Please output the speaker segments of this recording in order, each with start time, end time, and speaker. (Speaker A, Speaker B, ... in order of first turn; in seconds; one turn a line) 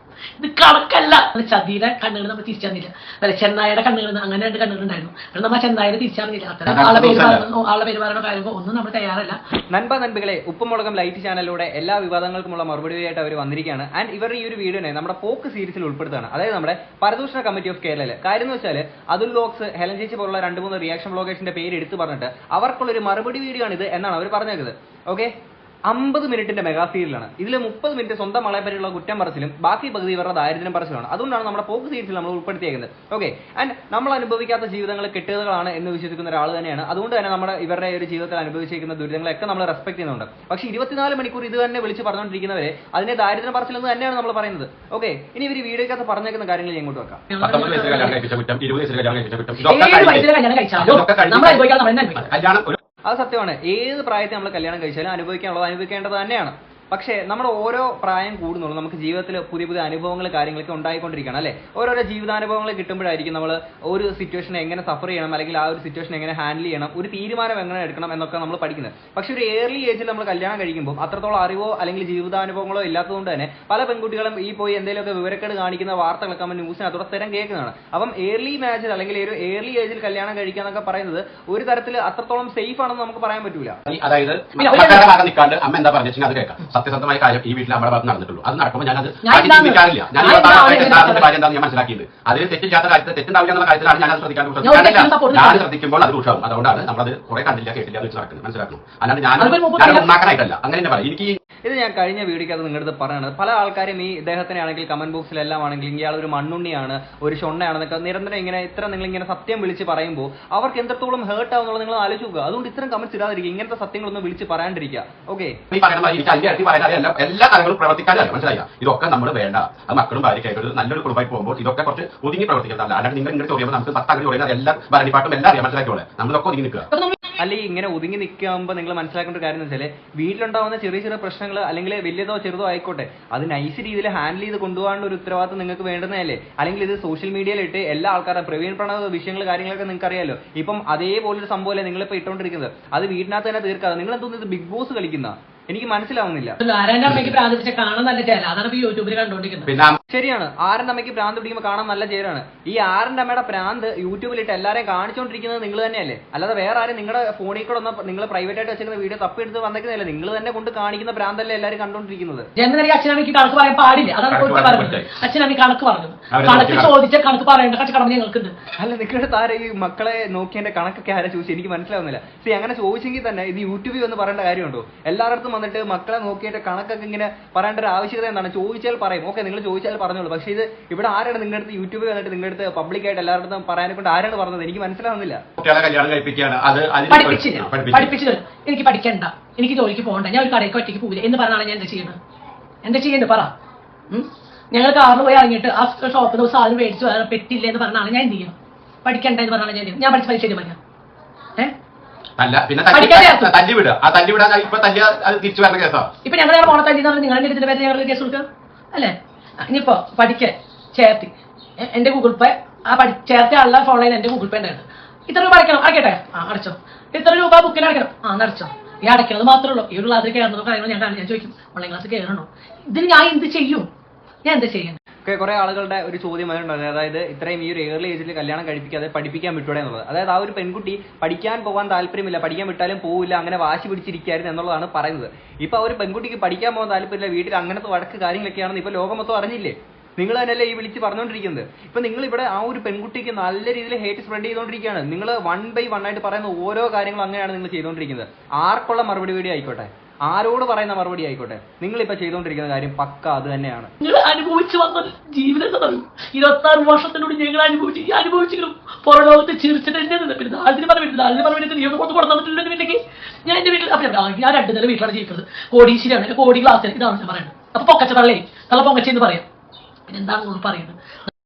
Speaker A: 0.4-9.4
Speaker B: 6.7-7.5
Speaker C: 9.7-25.3
Speaker C: 25.9-47.2
Speaker A: 47.3-48.2
Speaker B: 47.4-50.3
Speaker A: 49.6-52.3
Speaker B: 50.8-51.6
Speaker B: 52.1-52.8
Speaker C: 53.1-83.8
Speaker B: 83.9-101.4
Speaker A: 84.6-85.1
Speaker A: 89.2-91.3
Speaker A: 94.6-95.7
Speaker A: 99.4-100.1
Speaker C: 101.7-115.6
Speaker B: 115.7-126.9
Speaker A: 127.0-127.3
Speaker C: 127.4-146.6
Speaker A: 146.6-149.7
Speaker B: 149.7-150.0
Speaker C: 150.1-162.5
Speaker A: 162.6-168.6
Speaker B: 164.3-165.1
Speaker B: 166.3-166.9
Speaker C: 168.8-185.4
Speaker B: 185.6-188.2
Speaker A: 187.1-192.2
Speaker A: 192.8-193.5
Speaker A: 194.1-200.8
Speaker B: 202.4-206.1
Speaker A: 202.9-203.5
Speaker A: 206.2-223.9
Speaker A: 224.4-225.0
Speaker C: 225.3-253.9
Speaker A: 254.0-269.5
Speaker A: 270.1-271.0